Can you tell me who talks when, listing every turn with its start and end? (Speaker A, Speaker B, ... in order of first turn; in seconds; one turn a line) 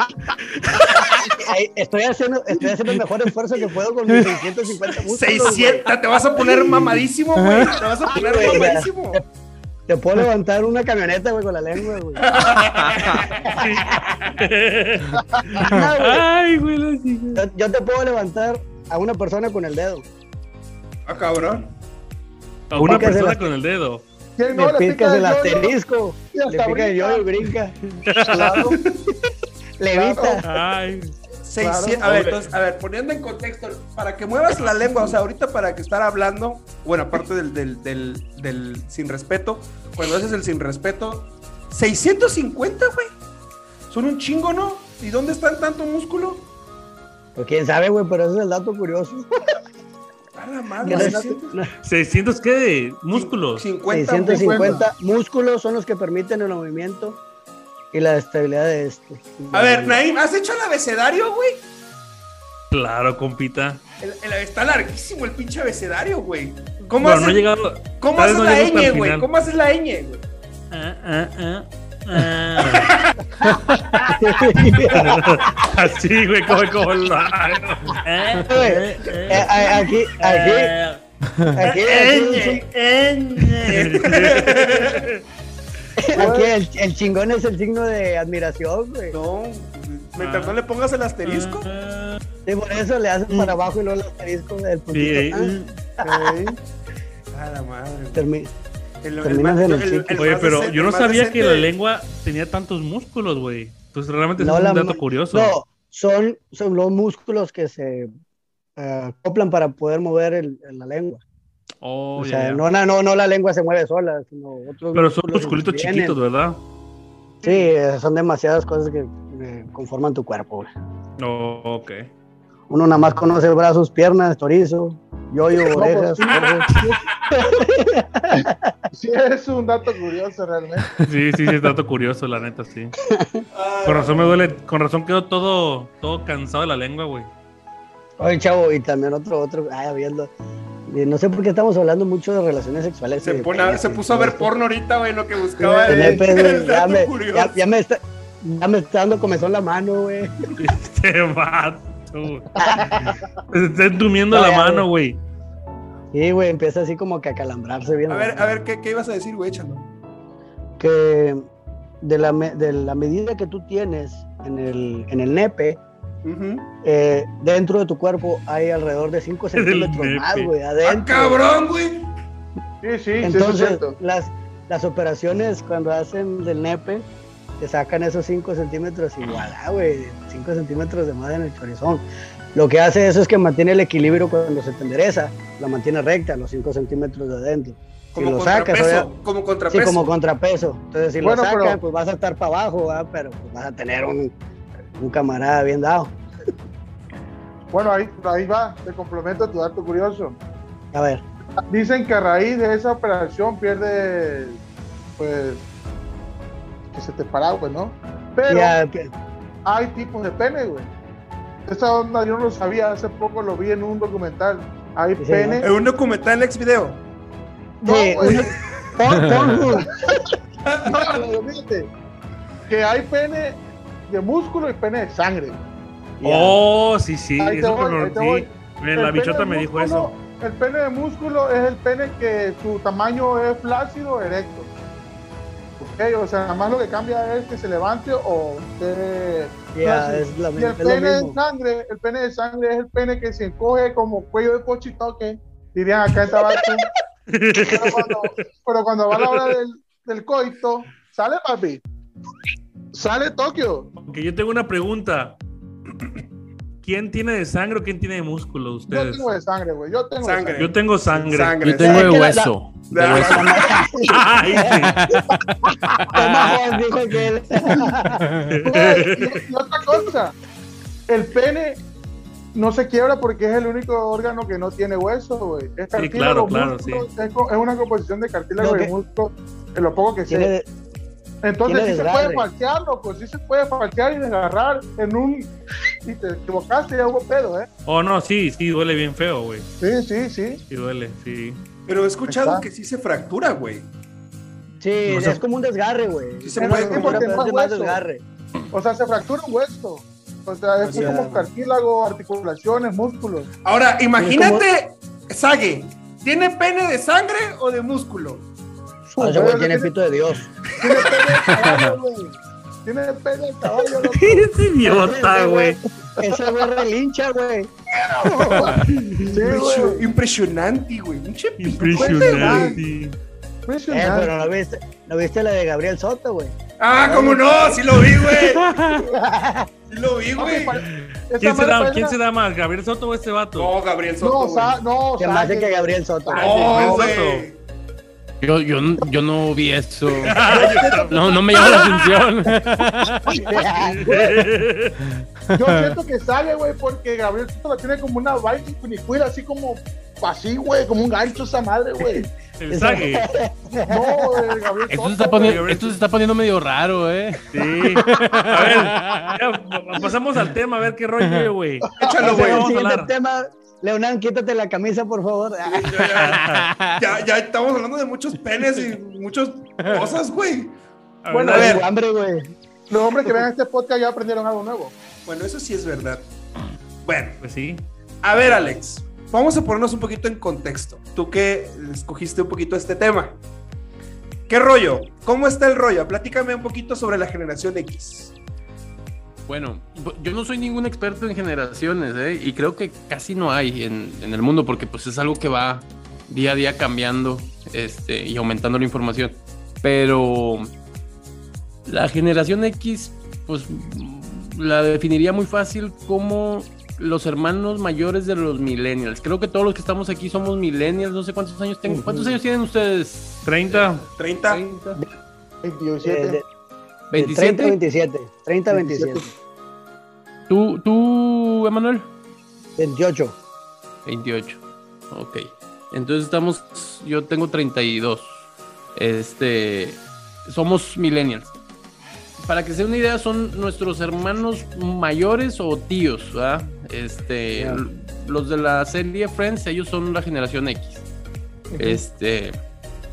Speaker A: 0.6-1.3
Speaker B: 1.3-5.9
Speaker C: 5.1-9.2
Speaker D: 7.4-7.8
Speaker B: 8.1-9.2
Speaker B: 9.9-12.2
Speaker C: 12.2-13.6
Speaker A: 13.5-17.4
Speaker E: 15.2-15.6
Speaker B: 15.6-16.2
Speaker B: 17.3-20.1
Speaker C: 21.1-21.7
Speaker A: 22.7-24.0
Speaker B: 22.8-23.5
Speaker E: 24.4-25.8
Speaker B: 24.5-27.8
Speaker E: 26.3-27.3
Speaker A: 28.1-28.7
Speaker B: 28.3-29.1
Speaker E: 28.3-28.7
Speaker B: 29.8-30.5
Speaker E: 29.9-30.4
Speaker A: 30.4-31.1
Speaker C: 31.4-43.1
Speaker E: 31.6-32.1
Speaker A: 32.0-32.5
Speaker C: 43.9-46.5
Speaker B: 47.4-49.3
Speaker C: 50.4-51.5
Speaker B: 50.8-51.7
Speaker A: 51.8-53.6
Speaker C: 53.1-54.8
Speaker B: 53.9-57.2
Speaker E: 54.2-54.9
Speaker B: 57.9-60.0
Speaker C: 59.5-61.6
Speaker A: 62.7-63.8
Speaker C: 64.0-67.5
Speaker A: 67.0-69.3
Speaker C: 68.0-70.2
Speaker A: 70.7-74.1
Speaker C: 72.6-73.1
Speaker B: 74.1-75.4
Speaker A: 74.9-81.0
Speaker B: 78.5-80.7
Speaker B: 81.5-82.6
Speaker C: 81.6-85.1
Speaker A: 83.4-85.2
Speaker B: 86.0-89.1
Speaker E: 86.1-86.5
Speaker C: 89.1-91.7
Speaker A: 90.2-90.6
Speaker A: 91.2-92.2
Speaker B: 92.5-96.3
Speaker A: 94.9-95.7
Speaker E: 96.0-96.6
Speaker C: 97.3-98.3
Speaker B: 98.1-98.5
Speaker C: 99.0-101.7
Speaker B: 99.2-100.3
Speaker A: 100.1-105.6
Speaker B: 104.4-108.1
Speaker B: 108.8-111.2
Speaker A: 111.8-112.6
Speaker B: 112.2-116.2
Speaker A: 114.9-116.6
Speaker B: 117.4-120.7
Speaker A: 121.2-122.1
Speaker B: 122.7-126.7
Speaker E: 125.7-127.0
Speaker A: 126.4-126.8
Speaker B: 127.3-128.7
Speaker E: 128.9-130.9
Speaker A: 131.0-132.9
Speaker B: 133.1-133.4
Speaker C: 133.5-134.5
Speaker A: 133.8-137.3
Speaker B: 138.2-140.3
Speaker B: 140.9-144.5
Speaker C: 143.2-147.6
Speaker B: 145.6-150.3
Speaker E: 145.9-146.2
Speaker A: 150.6-155.2
Speaker B: 152.6-153.1
Speaker B: 154.3-154.9
Speaker B: 156.1-158.5
Speaker C: 158.1-159.9
Speaker B: 160.8-161.4
Speaker B: 162.0-165.8
Speaker C: 166.2-166.7
Speaker B: 166.8-171.4
Speaker A: 169.6-170.5
Speaker C: 170.8-172.1
Speaker E: 172.8-173.9
Speaker B: 173.2-177.1
Speaker B: 177.6-182.0
Speaker B: 182.6-189.1
Speaker C: 188.1-190.1
Speaker B: 189.7-194.3
Speaker E: 191.2-191.8
Speaker B: 195.0-196.1
Speaker E: 197.7-200.4
Speaker B: 200.9-201.2
Speaker E: 201.7-204.6
Speaker E: 205.2-205.7
Speaker E: 206.9-208.8
Speaker B: 208.5-209.1
Speaker E: 209.6-210.9
Speaker E: 211.7-215.7
Speaker B: 215.2-215.6
Speaker C: 215.6-217.0
Speaker E: 217.8-218.5
Speaker B: 217.8-219.9
Speaker D: 219.1-219.6
Speaker C: 220.7-221.1
Speaker E: 220.8-221.9
Speaker E: 222.7-225.6
Speaker B: 226.2-226.6
Speaker A: 226.2-230.1
Speaker E: 227.4-234.7
Speaker E: 235.8-246.9
Speaker B: 239.7-241.4
Speaker A: 247.3-248.2
Speaker E: 247.6-251.8
Speaker E: 252.9-253.9
Speaker A: 254.0-255.4
Speaker A: 256.8-259.3
Speaker E: 258.9-260.7
Speaker C: 260.2-262.3
Speaker A: 260.6-261.6
Speaker D: 261.6-263.5
Speaker B: 261.8-262.5
Speaker C: 262.9-263.7
Speaker B: 263.0-265.2
Speaker A: 264.1-265.2
Speaker B: 266.1-268.2
Speaker A: 266.1-266.8
Speaker D: 268.2-268.6
Speaker A: 268.5-269.4
Speaker E: 268.6-270.4
Speaker E: 271.1-271.8
Speaker E: 272.5-280.5
Speaker A: 275.9-277.1
Speaker B: 278.6-278.9
Speaker B: 280.3-280.6
Speaker E: 281.4-285.5
Speaker B: 281.6-282.5
Speaker E: 286.1-287.7
Speaker A: 287.9-289.7
Speaker E: 289.8-290.6
Speaker A: 290.7-291.6
Speaker C: 291.9-293.9
Speaker E: 292.3-292.6
Speaker B: 294.8-298.2
Speaker A: 295.1-295.4
Speaker C: 296.4-297.4
Speaker E: 296.6-298.0
Speaker E: 298.7-303.5
Speaker B: 300.9-301.5
Speaker C: 303.6-308.5
Speaker B: 304.2-304.6
Speaker B: 309.1-310.5
Speaker E: 309.1-309.9
Speaker E: 310.8-314.5
Speaker D: 311.4-312.0
Speaker A: 314.1-315.8
Speaker B: 314.8-317.7
Speaker E: 318.0-320.1
Speaker C: 319.2-322.8
Speaker A: 321.6-323.1
Speaker E: 321.9-322.8
Speaker E: 323.7-324.4
Speaker B: 323.9-326.6
Speaker C: 326.8-328.8
Speaker B: 327.1-327.8
Speaker A: 328.3-329.1
Speaker B: 329.1-329.7
Speaker C: 329.9-330.8
Speaker E: 330.4-332.1
Speaker A: 331.4-333.7
Speaker C: 333.6-334.8
Speaker E: 334.2-337.1
Speaker B: 335.2-337.0
Speaker C: 336.4-337.6
Speaker A: 336.5-337.4
Speaker D: 338.4-340.4
Speaker A: 340.2-342.2
Speaker E: 340.4-341.9
Speaker D: 341.1-343.5
Speaker B: 343.4-344.3
Speaker A: 343.7-345.0
Speaker D: 345.0-345.9
Speaker E: 345.5-352.3
Speaker A: 352.6-353.3
Speaker B: 352.7-354.4
Speaker E: 353.9-355.6
Speaker D: 354.9-359.4
Speaker A: 355.4-356.0
Speaker A: 357.5-363.1
Speaker D: 361.2-361.5
Speaker C: 362.0-362.7
Speaker B: 362.2-366.0
Speaker C: 365.7-366.4
Speaker A: 365.9-366.7
Speaker D: 366.4-367.1
Speaker C: 367.0-370.8
Speaker D: 369.8-370.2
Speaker A: 371.2-371.8
Speaker E: 371.3-371.7
Speaker B: 371.5-372.5
Speaker C: 371.5-371.8
Speaker E: 372.9-374.9
Speaker C: 375.3-376.3
Speaker C: 377.0-377.4
Speaker A: 377.4-377.9
Speaker C: 378.2-383.4
Speaker A: 378.4-378.8
Speaker C: 384.5-388.4
Speaker D: 389.5-400.7
Speaker D: 401.9-415.0
Speaker B: 411.9-412.4
Speaker A: 413.4-414.1
Speaker C: 414.2-414.6
Speaker E: 415.6-416.4
Speaker B: 416.0-416.4
Speaker D: 417.1-417.8
Speaker B: 417.1-419.3
Speaker E: 418.7-419.3
Speaker D: 420.5-422.1
Speaker B: 422.8-423.4
Speaker D: 424.1-431.6
Speaker D: 432.4-441.1
Speaker B: 437.5-437.8
Speaker D: 441.8-442.6